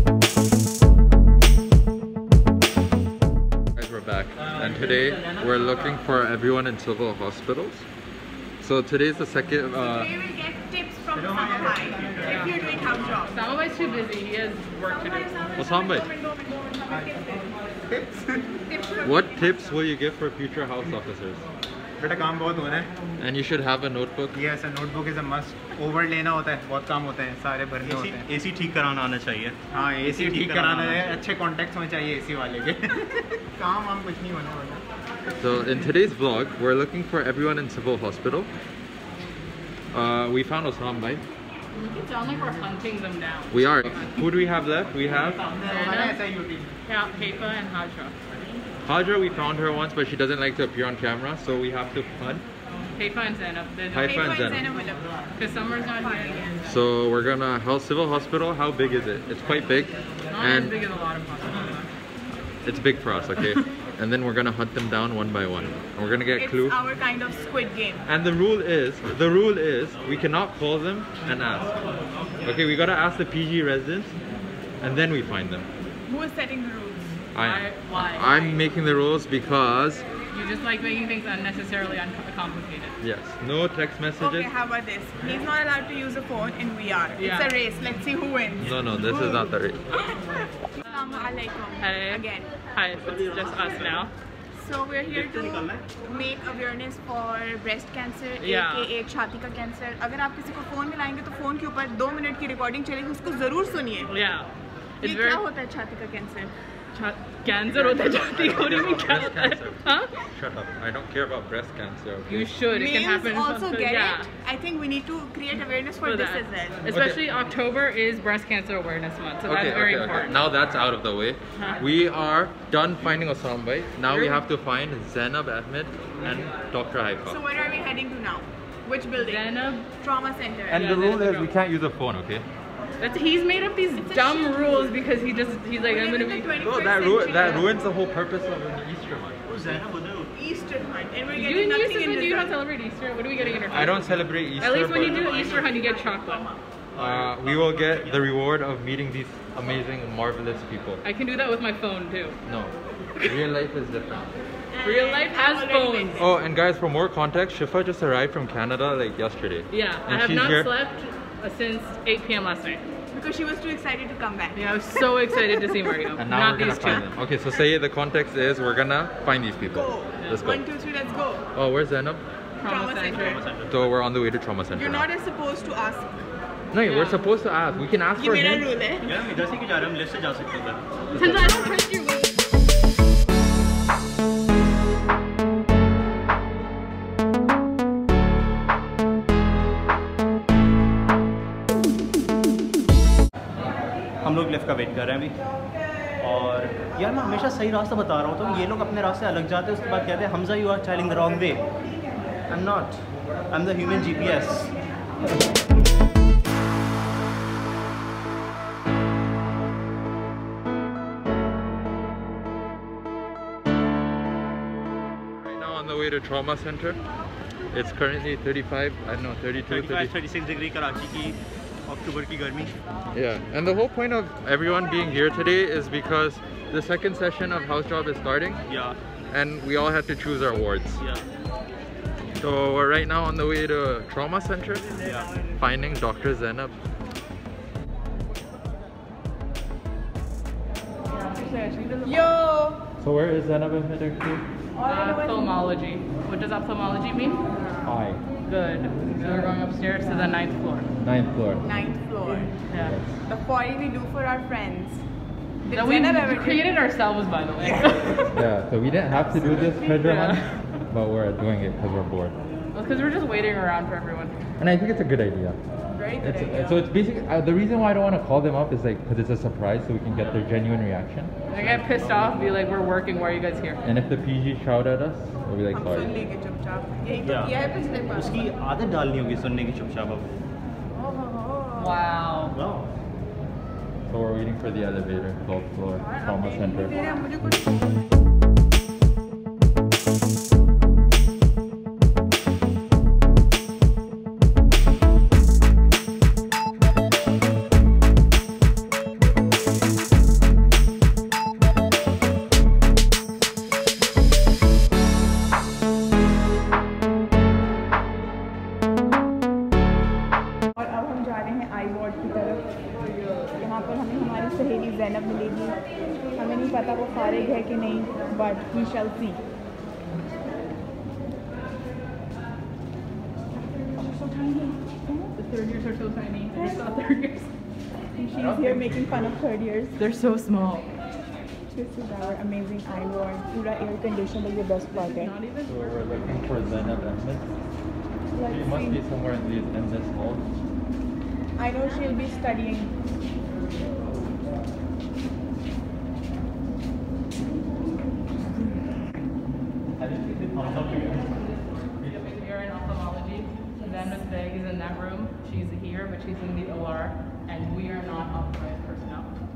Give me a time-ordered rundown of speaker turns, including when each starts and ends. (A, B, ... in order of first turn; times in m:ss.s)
0:03.8-0:07.9 A
0:04.4-0:05.4 B
0:08.6-0:10.1 A
0:09.8-0:13.4 C
0:11.2-0:12.8 D
0:12.2-0:12.6 E
0:13.2-0:15.5 E
0:14.8-0:17.7 C
0:15.6-0:16.1 A
0:17.9-0:18.4 D
0:18.5-0:19.7 C
0:19.0-0:21.5 A
0:22.0-0:22.9 D
0:23.2-0:24.4 A
0:24.3-0:28.3 D
0:27.8-0:31.2 B
0:29.7-0:34.8 D
0:35.4-0:38.5 A
0:39.9-0:41.2 A
0:41.7-0:44.3 E
0:43.5-0:45.4 A
0:45.4-0:46.7 D
0:45.6-0:46.3 E
0:46.9-0:48.2 E
0:48.8-0:52.4 A
0:52.8-0:54.2 E
0:53.9-0:54.7 A
0:54.0-0:55.3 C
0:55.4-0:56.8 E
0:55.8-0:56.5 C
0:56.6-1:00.8 A
1:00.3-1:01.9 E
1:02.4-1:06.8 A
1:06.4-1:08.0 C
1:08.0-1:11.8 A
1:12.4-1:14.2 A
1:14.8-1:15.7 A
1:16.1-1:17.2 C
1:17.3-1:20.1 A
1:17.4-1:18.7 E
1:20.3-1:23.0 E
1:23.0-1:24.5 A
1:24.2-1:32.6 C
1:27.2-1:27.6 E
1:28.6-1:29.9 A
1:30.8-1:34.1 E
1:32.9-1:34.1 B
1:34.5-1:44.1 C
1:35.1-1:35.9 B
1:38.4-1:38.9 E
1:44.1-1:45.4 E
1:45.0-1:46.5 C
1:46.9-1:50.1 E
1:47.7-1:52.5 A
1:52.3-1:54.3 E
1:52.7-1:56.8 C
1:56.0-2:00.5 E
1:56.9-1:57.2 A
1:59.4-2:07.4 A
2:01.6-2:01.9 E
2:04.0-2:04.5 E
2:07.3-2:10.8 C
2:09.2-2:09.9 E
2:10.7-2:11.5 E
2:10.7-2:12.5 A
2:13.0-2:16.6 E
2:14.0-2:14.9 C
2:15.8-2:17.8 C
2:16.6-2:19.4 A
2:19.5-2:20.3 B
2:20.4-2:22.6 C
2:21.3-2:26.5 E
2:23.4-2:24.2 B
2:23.7-2:25.3 A
2:25.1-2:26.6 C
2:26.9-2:28.3 B
2:27.0-2:31.0 A
2:31.0-2:32.4 E
2:32.5-2:34.3 A
2:34.7-2:36.4 C
2:34.8-2:36.2 E
2:36.2-2:40.8 A
2:39.7-2:42.8 E
2:43.1-2:44.8 C
2:44.5-2:47.1 E
2:45.3-2:45.7 C
2:46.2-2:50.7 A
2:49.7-2:51.4 C
2:51.5-2:52.2 A
2:52.6-2:53.4 E
2:52.6-2:53.4 C
2:53.2-2:53.9 B
2:53.7-2:55.1 A
2:54.7-2:56.2 C
2:56.7-2:58.7 A
2:56.7-2:57.2 E
2:58.2-2:59.1 C
2:59.0-3:01.5 B
3:01.1-3:02.3 E
3:14.2-3:15.4 B
3:16.2-3:21.7 B
3:22.5-3:24.8 B
3:35.4-3:37.0 A
3:37.7-3:40.1 A
3:39.6-3:42.7 B
3:43.1-3:48.6 A
3:48.7-3:49.0 B
3:49.3-3:51.0 A
3:51.0-3:51.2 B
3:52.4-3:55.0 A
3:55.0-3:55.3 B
3:55.5-3:56.8 A
4:01.1-4:02.3 E
4:01.4-4:02.9 C
4:03.0-4:04.4 A
4:04.8-4:05.5 C
4:04.8-4:07.4 E
4:07.6-4:07.9 C
4:07.8-4:08.2 A
4:08.4-4:10.9 E
4:11.0-4:11.8 A
4:11.6-4:12.6 C
4:12.7-4:13.0 E
4:12.7-4:13.1 A
4:13.2-4:15.0 C
4:15.6-4:16.9 C
4:15.7-4:18.4 E
4:18.3-4:22.4 A
4:19.6-4:20.9 E
4:22.7-4:24.5 E
4:24.6-4:25.6 A
4:25.9-4:26.8 C
4:26.2-4:32.4 A
4:31.5-4:33.8 E
4:33.8-4:36.2 A
4:35.7-4:38.5 C
4:37.2-4:40.3 B
4:40.9-4:42.0 C
4:41.7-4:42.6 E
4:42.5-4:42.9 B
4:44.1-4:47.1 A
4:46.0-4:48.0 C
5:10.8-5:12.8 C
5:13.5-5:19.4 C
5:23.5-5:27.5 E
5:26.6-5:26.9 C
5:28.2-5:30.0 C
5:28.3-5:29.4 A
5:30.0-5:30.9 E
5:31.7-5:35.4 C
5:34.9-5:37.2 E
5:35.6-5:37.6 A
5:38.3-5:39.0 C
5:38.5-5:40.4 A
5:41.6-5:43.0 C
5:50.0-5:52.2 B
5:51.4-5:59.3 E